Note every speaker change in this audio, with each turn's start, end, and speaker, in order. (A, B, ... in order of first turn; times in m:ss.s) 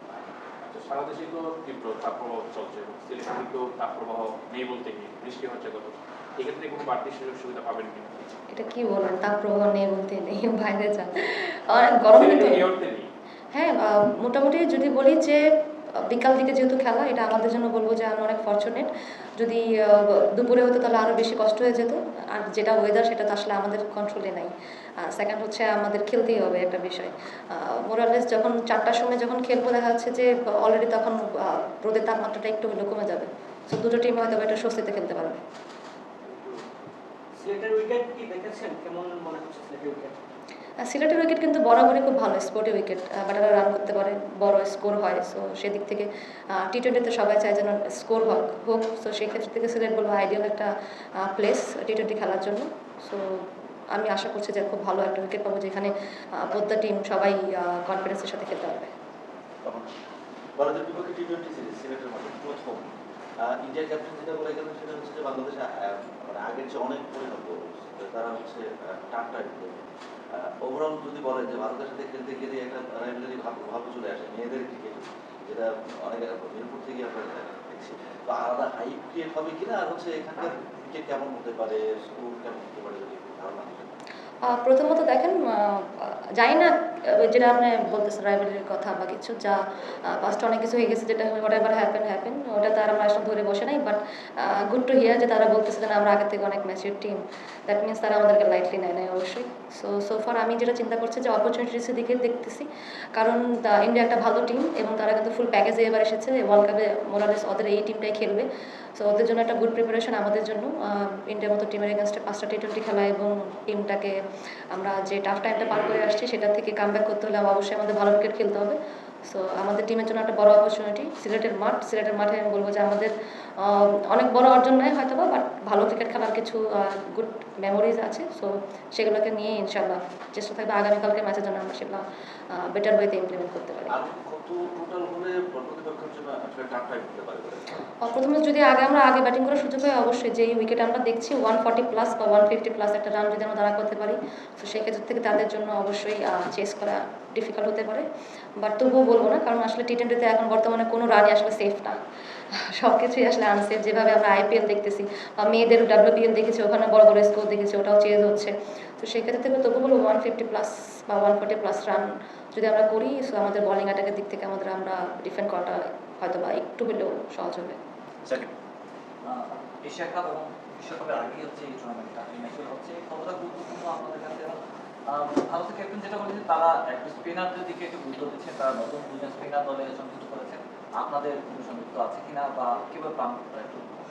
0:00.6-0:08.4 A
0:08.5-0:12.6 B
0:12.1-0:13.1 A
0:13.5-0:24.5 B
0:25.0-0:35.4 B
0:36.2-0:36.7 C
0:37.4-0:40.2 C
0:40.8-0:58.9 B
1:00.6-1:02.9 D
1:03.4-1:09.8 D
1:10.3-1:23.9 D
1:24.4-1:54.2 B
1:54.7-2:14.0 B
2:13.9-2:17.7 D
2:18.0-2:28.1 B
2:28.6-2:32.0 B
2:32.5-2:47.8 B
2:49.2-2:54.6 E
2:55.1-3:03.9 E